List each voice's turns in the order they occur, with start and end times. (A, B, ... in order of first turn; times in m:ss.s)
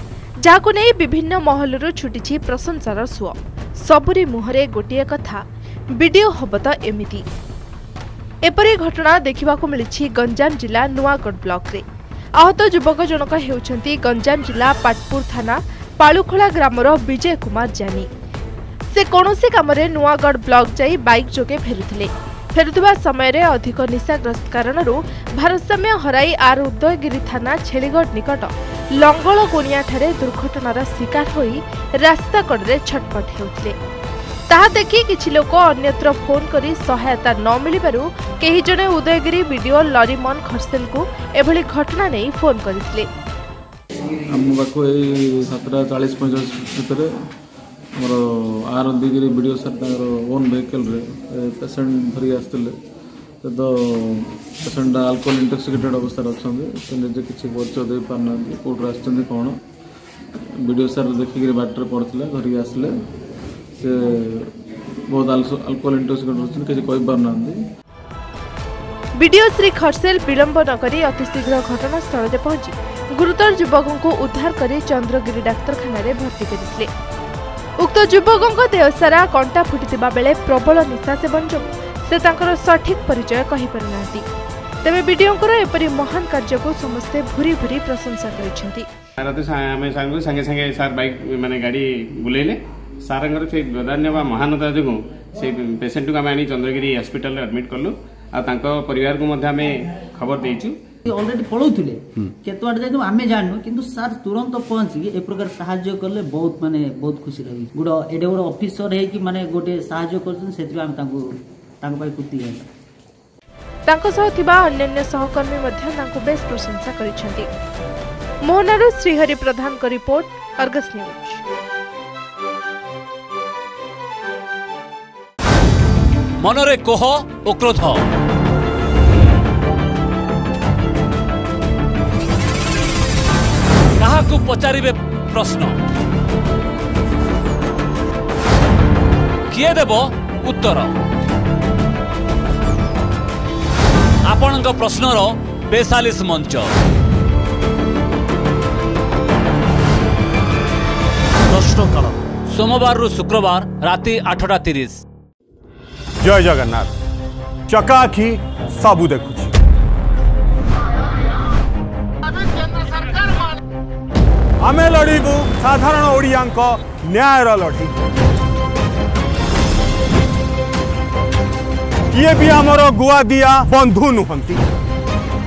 0:00.4-0:05.4 A
0:06.0-0:07.2 A
0:08.4-0:11.8 A
0:12.4-0:18.1 A
0:18.9-0:33.8 A
0:34.5-0:43.1 A
0:44.3-0:47.1 B
0:48.0-0:52.7 B
0:53.4-0:59.6 B
1:00.6-1:02.9 B
1:03.8-1:07.6 B
1:09.2-1:16.9 A
1:17.8-1:24.3 A
1:24.8-1:28.9 A
1:29.2-1:40.8 C
1:41.0-1:51.2 D
1:51.8-1:52.7 D
1:53.9-1:57.5 A
1:58.4-2:01.4 A
2:06.4-2:08.0 E
2:14.0-2:15.8 E
2:19.5-2:20.9 E
2:24.2-2:26.7 E
2:31.5-2:35.0 E
2:36.2-2:36.9 F
2:37.7-2:39.5 F
2:44.6-2:48.0 F
2:52.1-2:54.6 F